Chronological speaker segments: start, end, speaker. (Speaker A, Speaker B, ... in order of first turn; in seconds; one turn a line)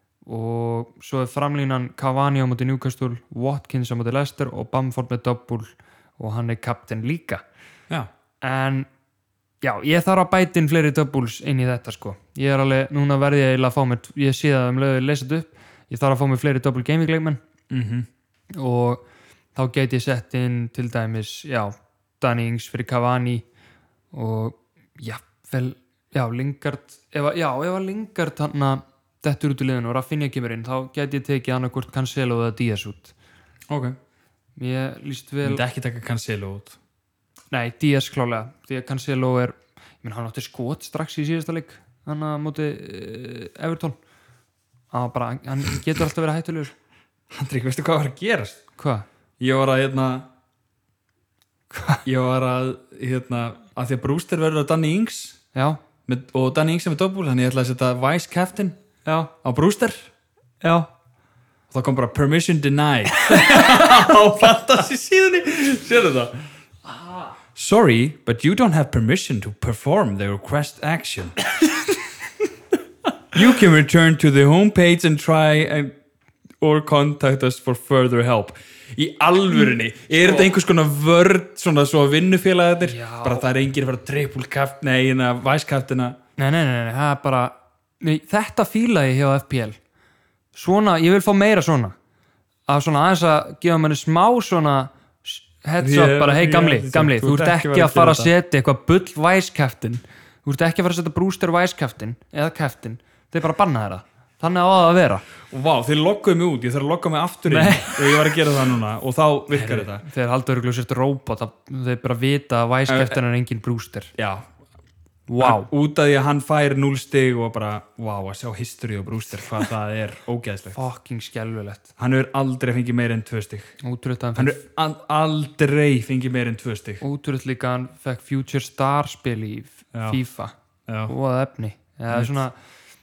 Speaker A: 0.2-7.4
Speaker A: 8.4-8.9
Speaker A: 9.6-17.4
Speaker B: 17.7-18.1
Speaker A: 18.5-19.0
Speaker A: 19.5-23.4
Speaker A: 24.1-33.1
Speaker B: 33.7-34.0
Speaker A: 34.6-35.6
Speaker B: 35.4-36.8
Speaker A: 37.5-44.0
Speaker A: 44.9-46.7
Speaker B: 47.3-48.6
Speaker A: 48.8-49.0
Speaker B: 49.4-50.3
Speaker A: 51.7-52.0
Speaker B: 52.0-55.4
Speaker A: 55.5-55.8
Speaker B: 56.0-60.1
Speaker A: 59.0-59.3
Speaker A: 60.6-60.9
Speaker B: 61.7-66.5
Speaker A: 63.1-64.1
Speaker B: 67.5-71.4
Speaker B: 73.3-75.9
Speaker B: 76.6-86.2
Speaker A: 82.8-83.5
Speaker A: 86.4-89.8
Speaker A: 90.5-92.0
Speaker A: 92.7-105.2
Speaker B: 95.8-98.3
Speaker B: 105.5-110.0
Speaker A: 107.5-108.5
Speaker A: 109.5-114.1
Speaker B: 112.9-113.2
Speaker B: 114.1-114.5
Speaker A: 115.3-115.7
Speaker B: 115.4-120.8
Speaker A: 120.7-121.9
Speaker B: 122.0-123.8
Speaker A: 123.8-124.6
Speaker B: 124.3-127.0
Speaker A: 127.0-130.5
Speaker B: 129.9-130.2
Speaker B: 130.9-131.1
Speaker A: 131.1-132.6
Speaker B: 132.1-132.4